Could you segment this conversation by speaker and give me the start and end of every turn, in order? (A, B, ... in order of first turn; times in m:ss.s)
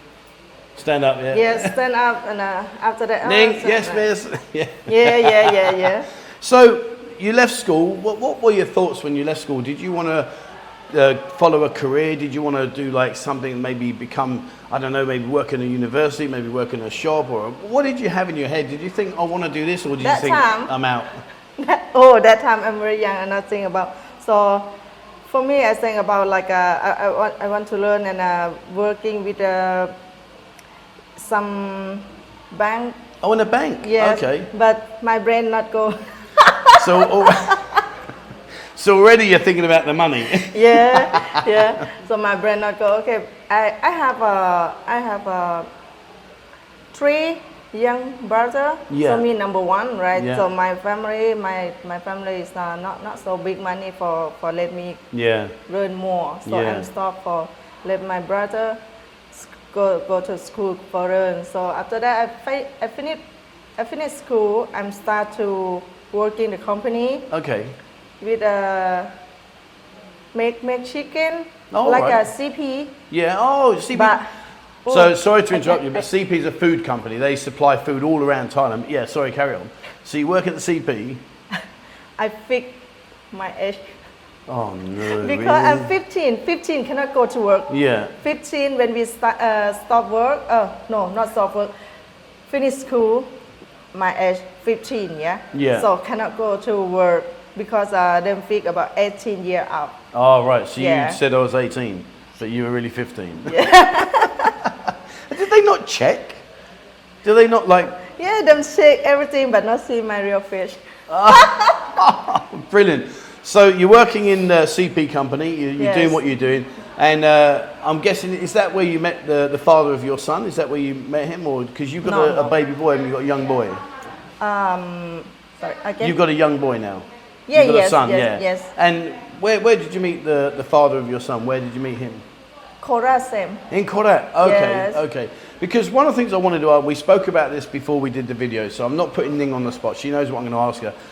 0:00.8-0:01.8 A
0:01.3-0:04.1 B
0:03.2-0:10.3 A
0:04.9-0:06.1 B
0:10.9-0:21.2 A
0:20.0-0:20.7 B
0:21.6-0:24.7 B
0:25.3-0:29.9 B
0:31.2-0:33.0 B
0:33.2-0:34.5 A
0:33.8-0:37.8 B
0:36.8-0:37.6 A
0:38.8-0:41.4 A
0:40.5-0:45.7 B
0:46.9-0:55.0 B
0:48.9-0:49.2 A
0:50.1-0:50.4 A
0:55.1-0:55.6 A
0:55.7-0:58.8 B
0:56.4-0:56.9 A
0:59.3-1:03.2 B
1:03.8-1:07.3 B
1:07.3-1:07.8 A
1:08.2-1:09.1 B
1:10.3-1:13.0 B
1:11.7-1:12.2 A
1:13.1-1:14.2 A
1:13.9-1:14.3 B
1:14.8-1:16.0 B
1:14.9-1:21.2 A
1:22.2-1:23.9 B
1:24.5-1:25.9 A
1:25.0-1:31.7 B
1:27.7-1:28.1 A
1:32.5-1:33.3 B
1:33.9-1:40.0 B
1:35.5-1:35.9 A
1:40.1-1:46.4 A
1:40.8-1:41.2 B
1:43.5-1:44.6 B
1:47.2-1:48.0 A
1:48.1-1:51.8 B
1:51.1-2:03.8 A
1:55.8-1:56.2 B
2:02.0-2:02.5 B
2:04.4-2:06.2 B
2:06.0-2:12.2 A
2:07.5-2:08.7 B
2:12.8-2:13.6 B
2:13.7-2:21.0 A
2:14.4-2:15.0 B